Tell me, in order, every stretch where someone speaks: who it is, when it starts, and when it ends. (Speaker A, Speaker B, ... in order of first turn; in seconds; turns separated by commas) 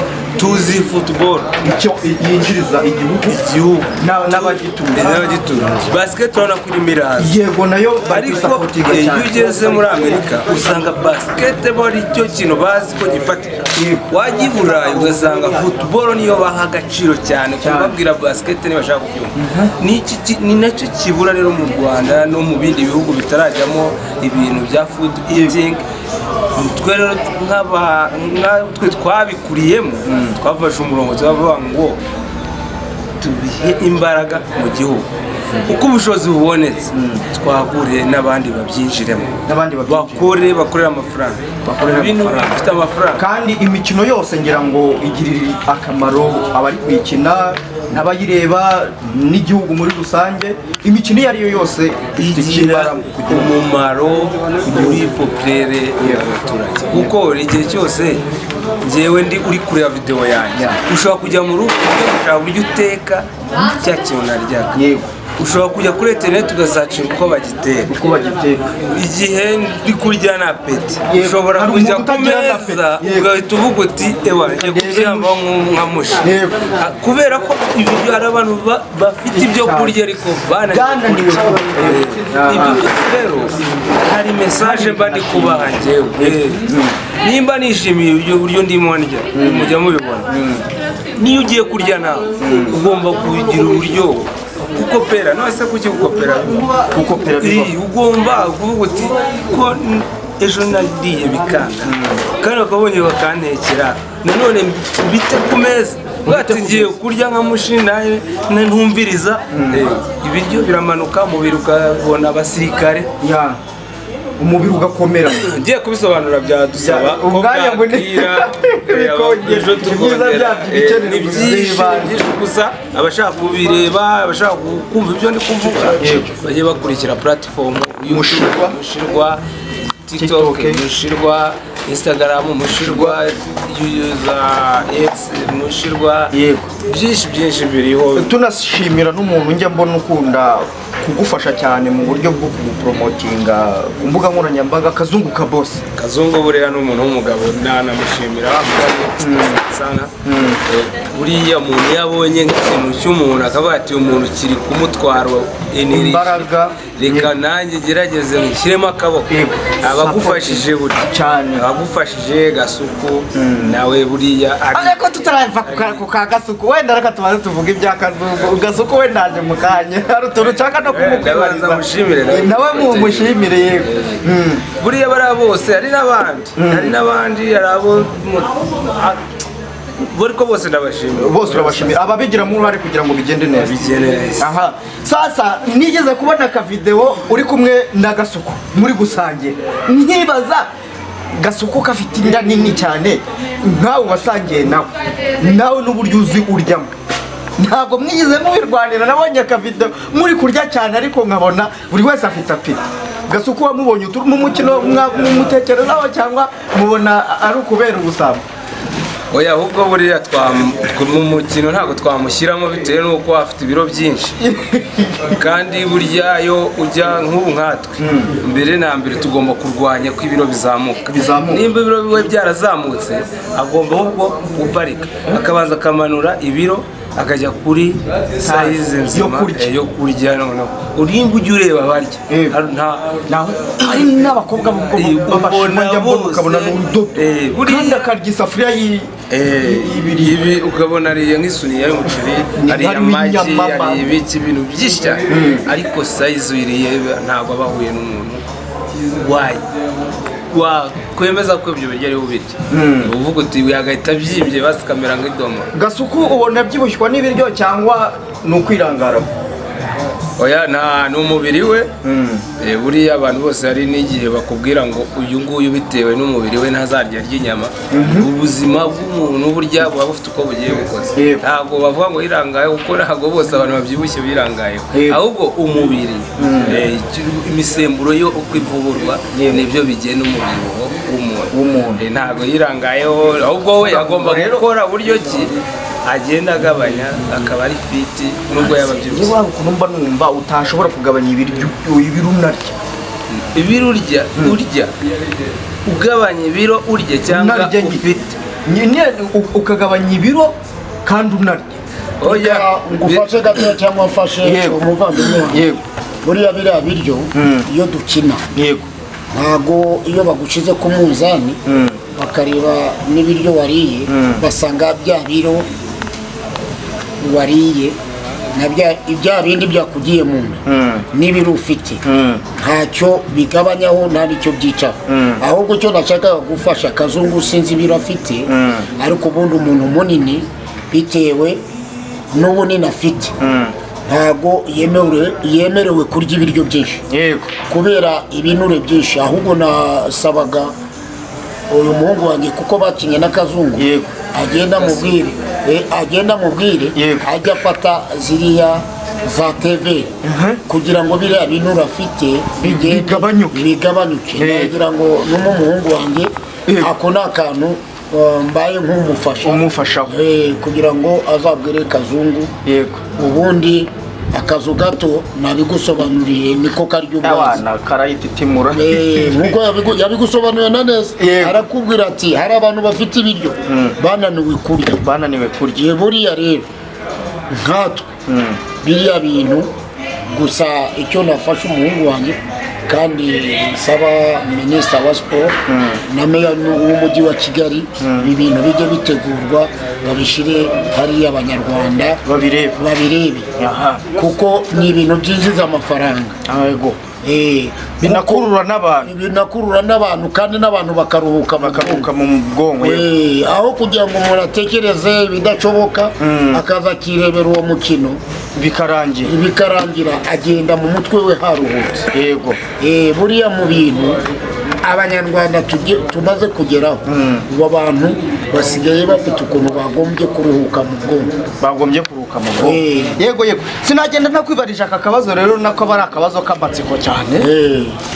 Speaker A: 0.4-1.5, Speaker B: 1.6-3.4, Speaker A: 3.2-7.4, Speaker B: 4.0-5.3, Speaker B: 7.2-10.4, Speaker A: 8.1-25.8, Speaker B: 13.8-15.6, Speaker B: 17.6-17.9, Speaker B: 19.4-19.7, Speaker A: 26.6-32.0, Speaker B: 30.1-30.4, Speaker A: 33.2-35.1, Speaker A: 35.7-43.2, Speaker B: 36.9-37.3, Speaker B: 39.5-40.3, Speaker B: 41.6-42.6, Speaker B: 43.2-53.5, Speaker A: 52.2-58.2, Speaker B: 54.6-55.1, Speaker B: 56.0-56.3, Speaker A: 58.8-64.7, Speaker B: 64.8-65.1, Speaker A: 65.4-67.9, Speaker B: 67.9-68.8, Speaker A: 68.9-76.2, Speaker B: 71.1-73.3, Speaker B: 74.6-75.4, Speaker B: 76.2-76.8, Speaker A: 76.8-90.3, Speaker B: 79.3-80.0, Speaker B: 80.7-82.9, Speaker B: 84.6-87.0, Speaker B: 89.3-89.8, Speaker B: 90.3-90.7, Speaker A: 91.2-96.6, Speaker B: 92.4-92.8, Speaker B: 96.9-97.7, Speaker A: 97.4-113.1, Speaker B: 101.8-102.2, Speaker B: 106.2-106.9, Speaker B: 109.5-109.9, Speaker B: 113.2-113.6, Speaker B: 114.4-115.5, Speaker A: 115.4-129.4, Speaker B: 116.8-122.2, Speaker B: 125.8-126.3, Speaker B: 128.1-128.8, Speaker A: 130.1-136.3, Speaker B: 130.2-130.8, Speaker B: 132.8-133.2, Speaker B: 136.3-136.7, Speaker A: 136.9-138.4, Speaker B: 138.2-145.8, Speaker A: 146.0-150.1, Speaker B: 149.2-149.6, Speaker B: 150.2-150.6, Speaker A: 150.7-165.1, Speaker B: 155.9-157.3, Speaker B: 159.3-161.7, Speaker B: 163.3-163.8, Speaker B: 164.7-174.6, Speaker A: 165.7-166.0, Speaker A: 170.9-179.2, Speaker B: 176.6-177.0, Speaker A: 180.0-182.1, Speaker B: 181.1-190.7, Speaker A: 183.7-184.6, Speaker B: 191.3-196.9, Speaker B: 197.6-208.4, Speaker A: 209.3-214.4, Speaker B: 214.4-215.3, Speaker A: 215.3-233.2, Speaker B: 218.0-218.3, Speaker B: 221.1-221.6, Speaker B: 228.4-229.7, Speaker B: 232.3-232.6, Speaker B: 233.3-240.4, Speaker A: 233.8-234.1, Speaker A: 234.9-238.1, Speaker A: 239.3-248.4, Speaker B: 242.6-244.1, Speaker B: 245.3-245.7, Speaker A: 249.1-249.6, Speaker A: 250.5-255.7, Speaker B: 252.7-253.1, Speaker B: 255.7-259.3, Speaker A: 260.4-261.9, Speaker B: 262.0-262.4, Speaker A: 262.6-289.4, Speaker B: 267.9-268.3, Speaker B: 271.1-271.4, Speaker B: 274.9-275.2, Speaker B: 276.4-276.8, Speaker B: 279.3-279.6, Speaker B: 281.5-282.0, Speaker B: 283.8-284.6, Speaker B: 288.6-292.8, Speaker A: 293.3-294.9, Speaker A: 295.9-298.0, Speaker B: 297.3-301.8, Speaker A: 302.2-303.4, Speaker C: 302.2-305.7, Speaker B: 304.4-304.8, Speaker B: 305.3-305.8, Speaker C: 306.2-308.5, Speaker B: 307.3-307.7, Speaker B: 308.5-308.9, Speaker C: 309.3-311.6, Speaker B: 311.6-312.0, Speaker C: 312.1-315.7, Speaker B: 314.1-314.4, Speaker C: 317.2-318.0, Speaker C: 318.5-322.0, Speaker B: 320.7-321.1, Speaker B: 322.0-322.4, Speaker C: 322.5-331.6, Speaker B: 325.1-325.4, Speaker B: 328.5-328.9, Speaker C: 332.3-333.4, Speaker B: 333.4-333.7, Speaker C: 334.1-337.0, Speaker B: 337.1-337.5, Speaker C: 337.7-340.7, Speaker C: 341.7-350.1, Speaker B: 343.8-344.2, Speaker B: 346.9-347.3, Speaker B: 350.2-350.6, Speaker C: 350.7-362.5, Speaker B: 352.6-353.6, Speaker B: 354.4-354.8, Speaker B: 356.7-356.9, Speaker B: 359.4-360.2, Speaker B: 362.6-363.0, Speaker C: 363.2-367.6, Speaker B: 367.2-369.6, Speaker C: 368.7-375.0, Speaker B: 371.2-371.6, Speaker B: 373.7-374.0, Speaker B: 375.0-375.9, Speaker C: 375.8-376.7, Speaker C: 377.5-378.1, Speaker B: 378.3-378.6, Speaker C: 378.8-379.7, Speaker C: 380.3-392.2, Speaker B: 385.7-386.0, Speaker B: 388.0-388.3, Speaker B: 392.2-392.8, Speaker C: 392.8-393.5, Speaker B: 393.6-394.0, Speaker C: 394.1-396.4, Speaker B: 396.5-397.0, Speaker C: 397.2-398.5, Speaker B: 398.0-399.1, Speaker C: 399.0-402.1, Speaker B: 401.6-403.1, Speaker C: 402.8-408.2, Speaker B: 406.2-406.6, Speaker B: 408.6-409.3, Speaker C: 409.2-412.1, Speaker B: 412.1-412.6, Speaker C: 412.7-414.2, Speaker C: 414.8-421.3, Speaker B: 417.1-417.5, Speaker B: 421.6-427.5, Speaker C: 422.6-423.2, Speaker C: 427.4-428.0